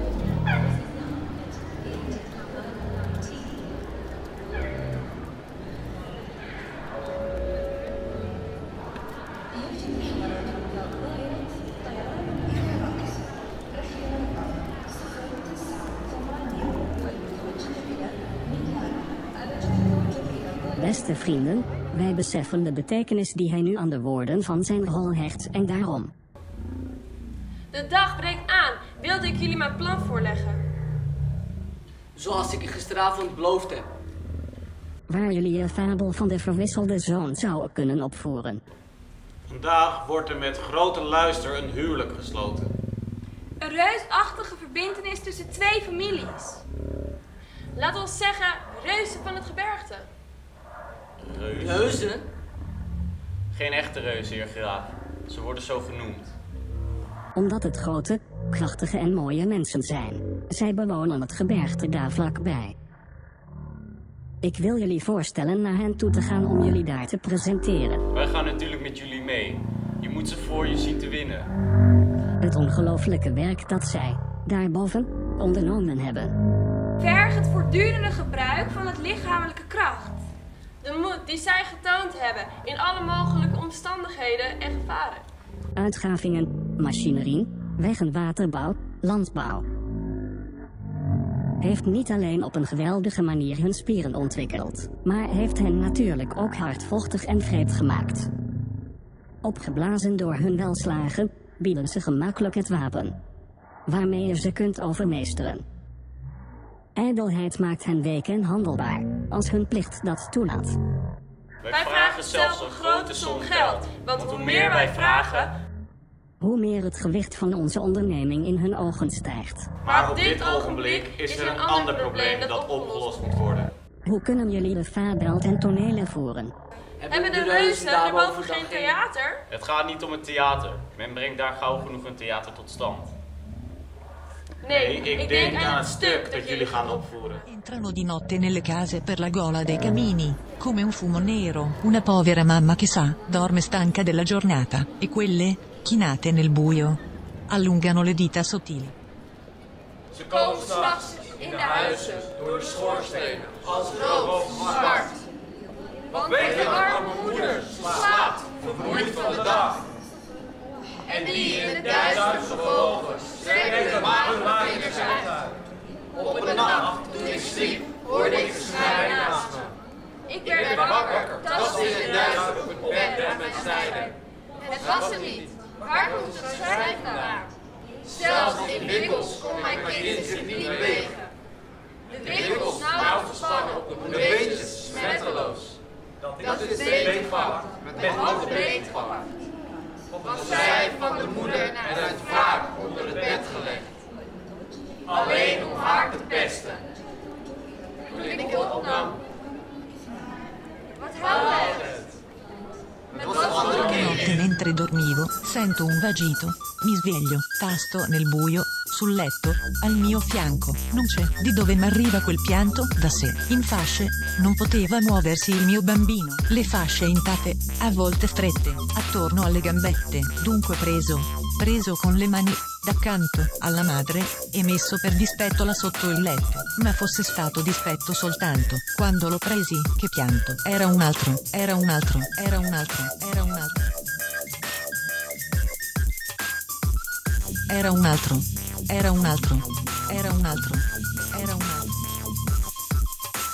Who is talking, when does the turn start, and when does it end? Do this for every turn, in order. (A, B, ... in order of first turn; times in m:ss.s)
0:20.8-0:26.1 A
0:27.7-0:30.6 B
0:32.2-0:33.9 C
0:35.1-0:38.6 A
0:39.5-0:42.7 D
0:43.6-0:46.6 B
0:47.8-0:50.1 B
0:51.2-0:52.0 D
0:51.5-0:52.3 C
0:53.5-0:56.3 D
0:57.4-1:02.8 A
1:04.4-1:08.0 A
1:08.1-1:11.5 D
1:12.4-1:16.4 A
1:17.0-1:20.2 B
1:20.8-1:25.3 B
1:25.8-1:29.6 A
1:31.6-1:38.3 A
1:39.4-1:43.2 A
1:43.9-1:45.6 A
1:47.0-1:50.8 A
1:51.6-1:55.5 D
1:51.7-1:55.5 B
1:56.4-1:59.7 A
1:59.8-2:03.7 D
1:59.9-2:03.2 B
2:04.1-2:06.5 A
2:07.0-2:09.0 C
2:07.1-2:09.4 B
2:09.5-2:13.1 D
2:14.6-2:17.1 B
2:14.7-2:17.4 D
2:17.5-2:28.9 E
2:30.2-2:32.4 B
2:33.0-2:33.7 C
2:34.1-2:35.0 B
2:36.2-2:39.5 B
2:38.8-2:39.3 D
2:41.1-2:45.3 B
2:46.2-2:49.6 B
2:50.3-2:54.2 B
2:54.7-2:57.5 B
2:58.1-3:01.2 B
3:02.2-3:05.7 B
3:04.0-3:05.0 C
3:06.5-3:07.5 B
3:08.0-3:09.2 B
3:10.3-3:12.9 B
3:15.2-3:16.6 B
3:23.3-3:23.7 B
3:23.3-3:53.9 E
3:57.7-4:02.0 E